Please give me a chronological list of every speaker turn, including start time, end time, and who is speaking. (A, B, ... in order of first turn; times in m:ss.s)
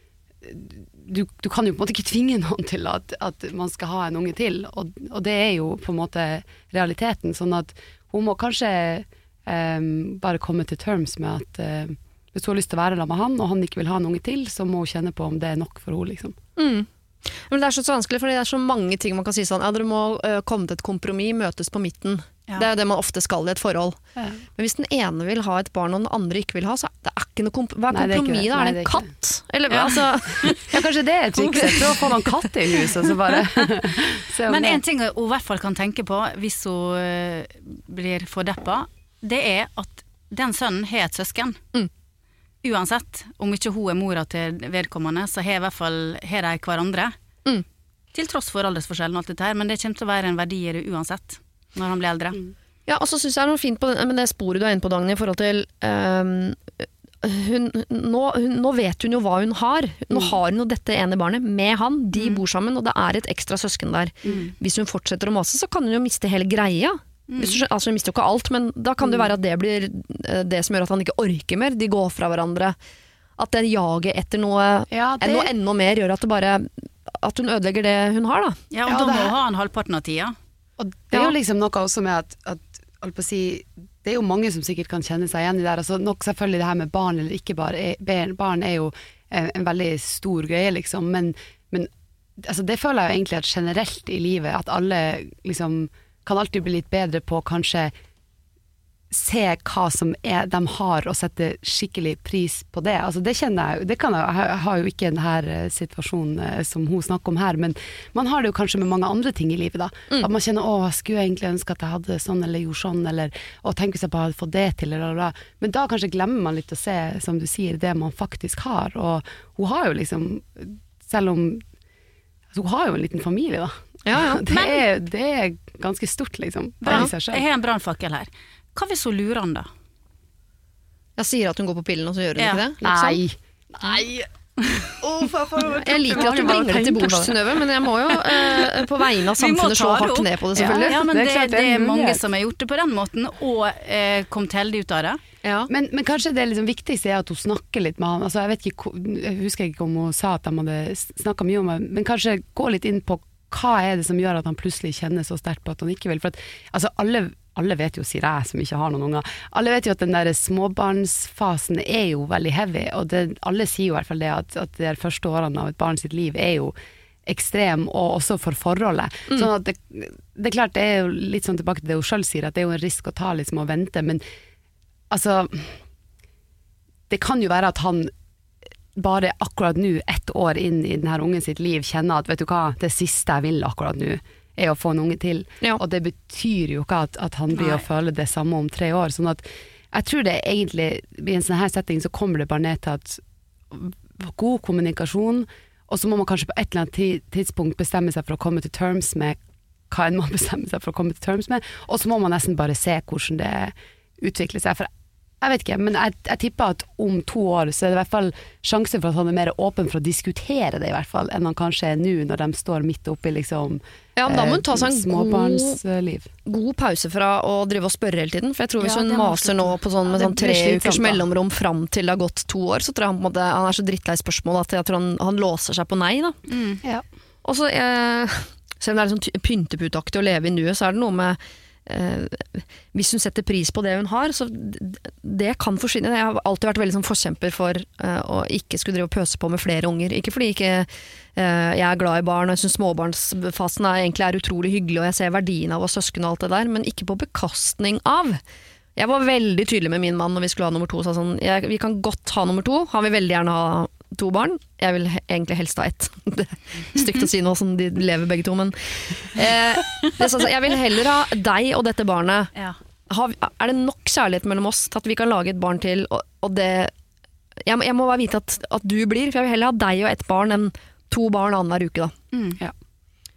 0:00.4-0:16.4 A
0:16.6-0:24.0 B
0:24.6-0:30.7 B
0:27.9-0:29.1 A
0:29.7-0:30.5 C
0:30.6-0:34.8 A
0:31.4-0:32.8 B
0:34.5-0:41.6 C
0:42.6-0:47.1 C
0:48.1-0:52.4 C
0:52.9-1:12.8 B
1:02.2-1:02.4 C
1:07.3-1:07.6 C
1:13.4-1:18.6 B
1:14.9-1:15.5 A
1:18.7-1:20.3 C
1:18.9-1:19.3 A
1:20.8-1:37.9 A
1:39.1-2:01.6 A
2:02.5-2:07.4 A
2:04.0-2:04.4 B
2:04.5-2:04.8 C
2:06.8-2:09.7 C
2:11.2-2:13.2 B
2:12.4-2:12.6 C
2:12.8-2:14.3 A
2:15.0-2:17.6 A
2:15.5-2:21.0 B
2:19.4-2:25.2 C
2:20.7-2:22.2 A
2:25.4-2:25.7 B
2:25.7-2:46.7 A
2:47.2-2:54.2 A
2:55.1-2:55.8 A
2:57.1-2:58.1 A
2:58.9-3:19.4 A
3:07.5-3:07.8 C
3:19.9-3:24.9 A
3:25.4-3:36.3 A
3:34.2-3:35.8 B
3:36.4-3:46.4 B
3:38.8-3:39.8 C
3:40.0-3:41.2 A
3:46.5-3:46.8 C
3:47.4-4:08.4 B
4:09.0-4:22.5 B
4:23.1-4:26.9 B
4:27.6-4:32.1 B
4:32.3-4:32.6 C